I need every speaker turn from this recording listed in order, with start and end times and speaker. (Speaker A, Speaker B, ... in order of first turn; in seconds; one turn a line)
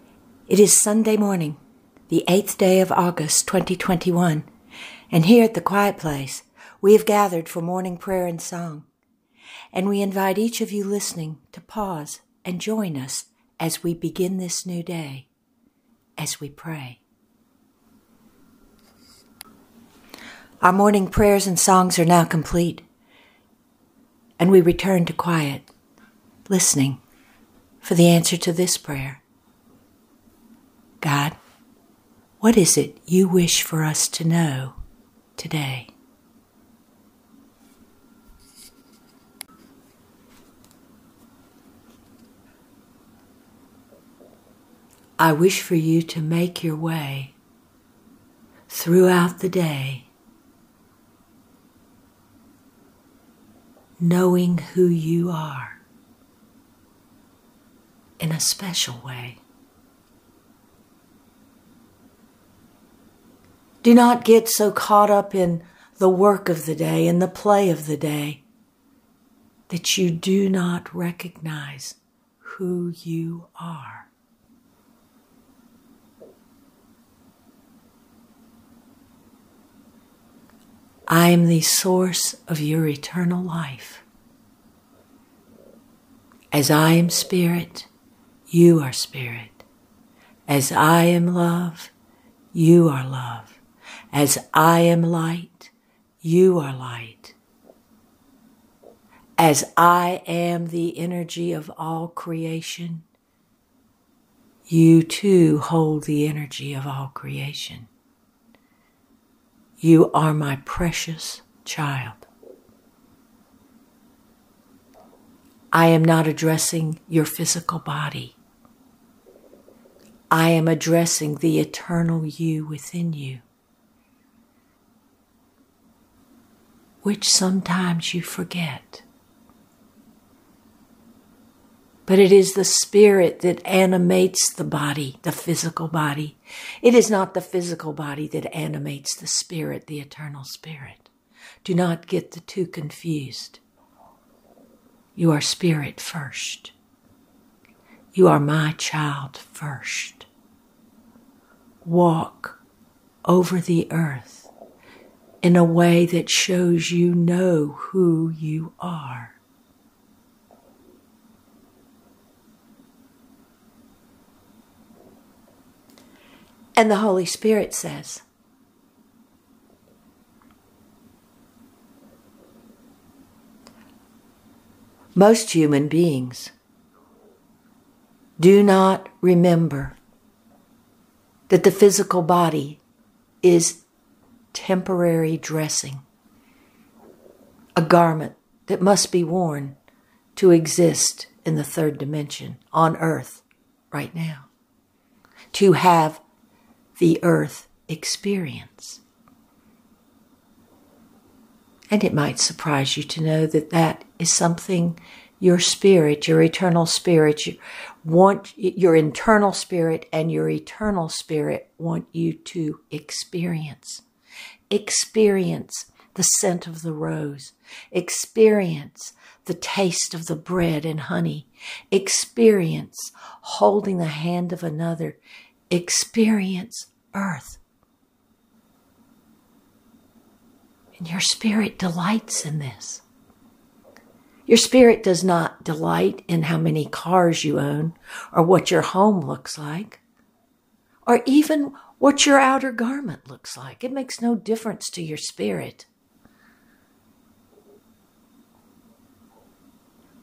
Speaker A: 0.5-1.6
Speaker A: 2.1-4.5
Speaker A: 5.1-8.8
Speaker A: 9.7-15.3
Speaker A: 16.2-17.0
Speaker A: 20.6-22.8
Speaker A: 24.4-25.7
Speaker A: 26.5-27.0
Speaker A: 27.8-29.2
Speaker A: 31.0-31.4
Speaker A: 32.4-34.8
Speaker A: 35.4-35.9
Speaker A: 45.2-47.4
Speaker A: 48.7-50.1
Speaker A: 54.0-55.8
Speaker A: 58.2-59.4
Speaker A: 63.8-68.4
Speaker A: 69.7-74.1
Speaker A: 81.1-84.0
Speaker A: 86.5-87.9
Speaker A: 88.5-89.6
Speaker A: 90.5-91.9
Speaker A: 92.5-93.6
Speaker A: 94.1-97.3
Speaker A: 99.4-103.0
Speaker A: 104.7-107.9
Speaker A: 109.8-112.3
Speaker A: 115.7-118.4
Speaker A: 120.3-123.4
Speaker A: 127.0-129.0
Speaker A: 132.1-141.1
Speaker A: 141.6-143.6
Speaker A: 145.2-146.7
Speaker A: 148.1-150.3
Speaker A: 151.8-152.6
Speaker A: 153.2-154.5
Speaker A: 155.4-159.4
Speaker A: 166.8-168.2
Speaker A: 175.1-176.5
Speaker A: 178.4-180.0
Speaker A: 181.5-182.8
Speaker A: 183.4-183.8
Speaker A: 184.5-186.0
Speaker A: 187.8-189.8
Speaker A: 190.3-194.5
Speaker A: 195.5-196.2
Speaker A: 196.9-199.0
Speaker A: 201.9-214.0
Speaker A: 214.7-227.6
Speaker A: 230.9-233.0
Speaker A: 234.5-240.0
Speaker A: 241.1-245.9